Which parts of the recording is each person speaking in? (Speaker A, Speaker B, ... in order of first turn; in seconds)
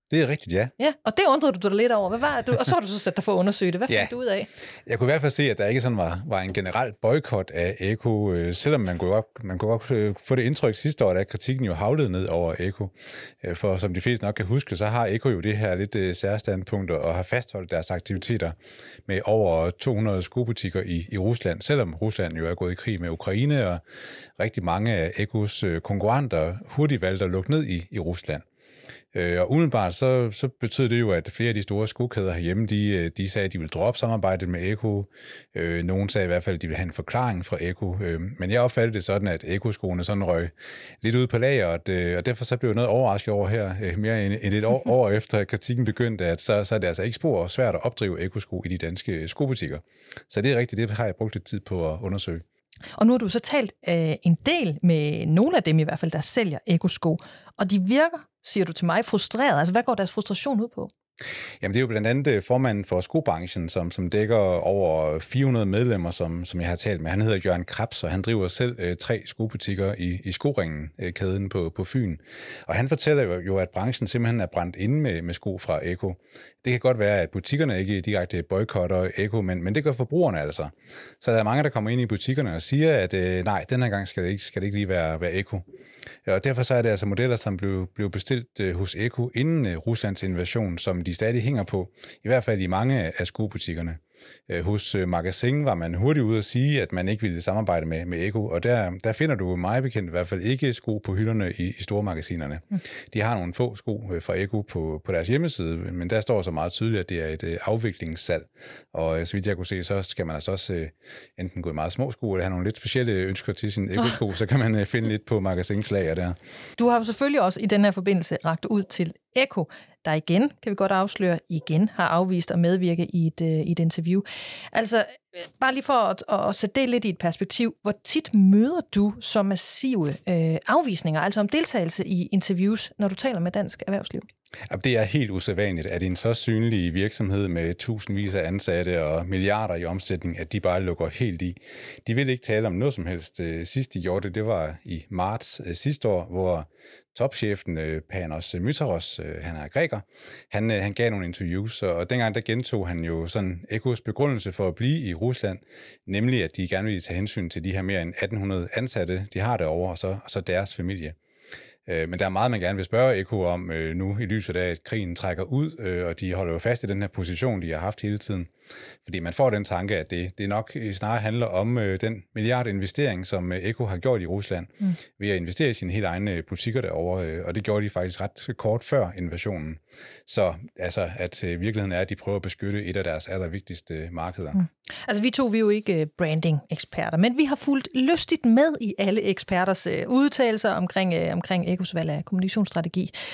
Speaker A: 0.1-0.7, 3.9-4.1, 4.9-18.6, 19.1-23.8, 24.4-28.4, 29.1-52.4, 61.6-85.7, 86.3-116.4, 134.7-161.2, 161.9-168.5, 169.1-184.6
Speaker B: 0.8-4.5, 53.0-60.9, 116.8-134.3, 184.5-193.1